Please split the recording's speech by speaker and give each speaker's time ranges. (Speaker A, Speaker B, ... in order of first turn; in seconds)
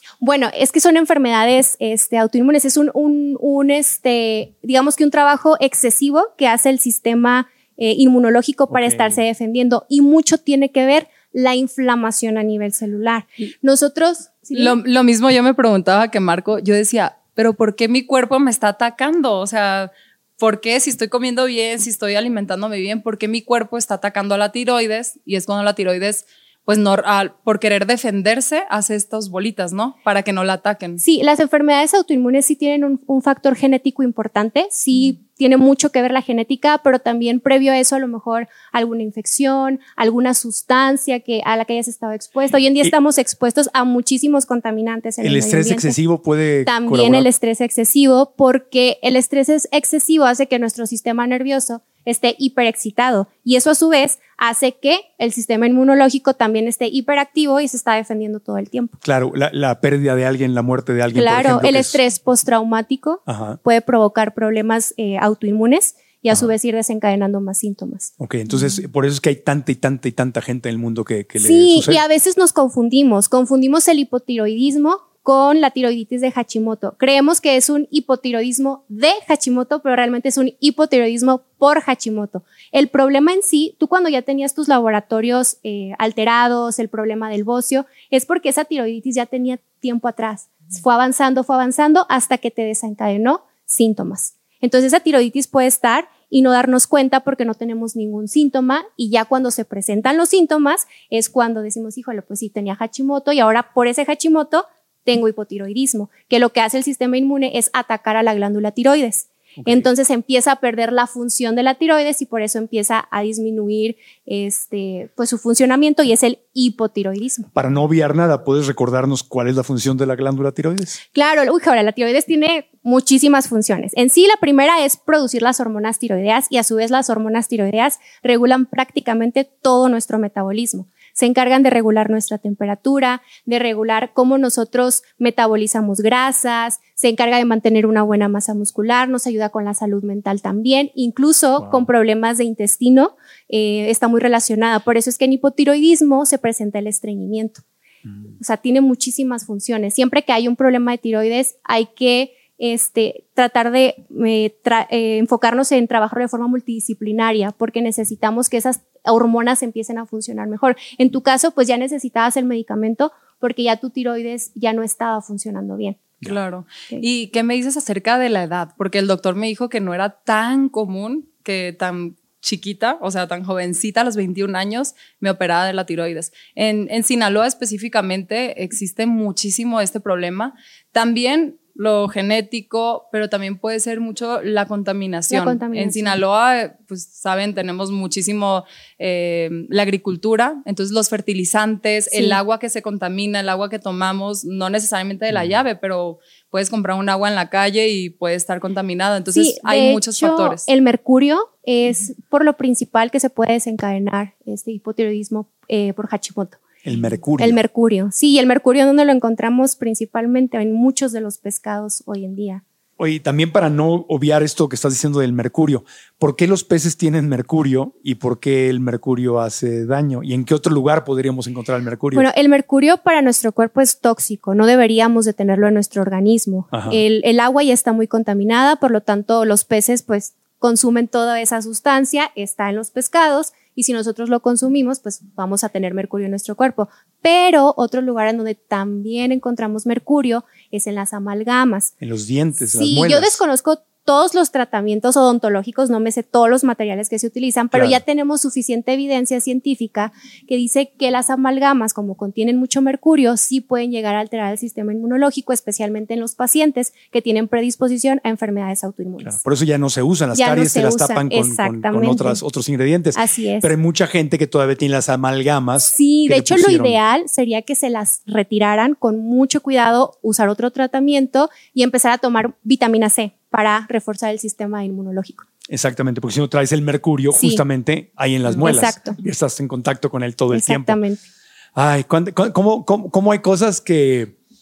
Speaker A: 0.2-14.8, 31.0-46.0, 46.6-59.0, 61.1-68.1, 71.4-117.5, 121.1-147.6, 148.4-166.1, 185.3-186.2, 192.1-192.4, 199.3-206.6, 207.4-212.6, 222.1-241.9, 242.6-259.4, 260.3-262.4, 263.1-263.7, 265.8-275.4, 277.3-277.6, 278.5-279.2, 280.5-281.2
Speaker B: 8.7-9.2, 45.2-47.3, 59.0-62.0, 63.3-63.6, 68.2-72.0, 109.6-109.9, 117.5-121.0, 141.6-141.9, 148.1-148.3, 206.8-207.6, 213.0-222.3, 226.7-227.0, 242.0-243.4, 247.7-248.0, 259.2-267.0, 275.7-281.0, 281.7-284.3
Speaker C: 14.5-31.0, 166.2-200.7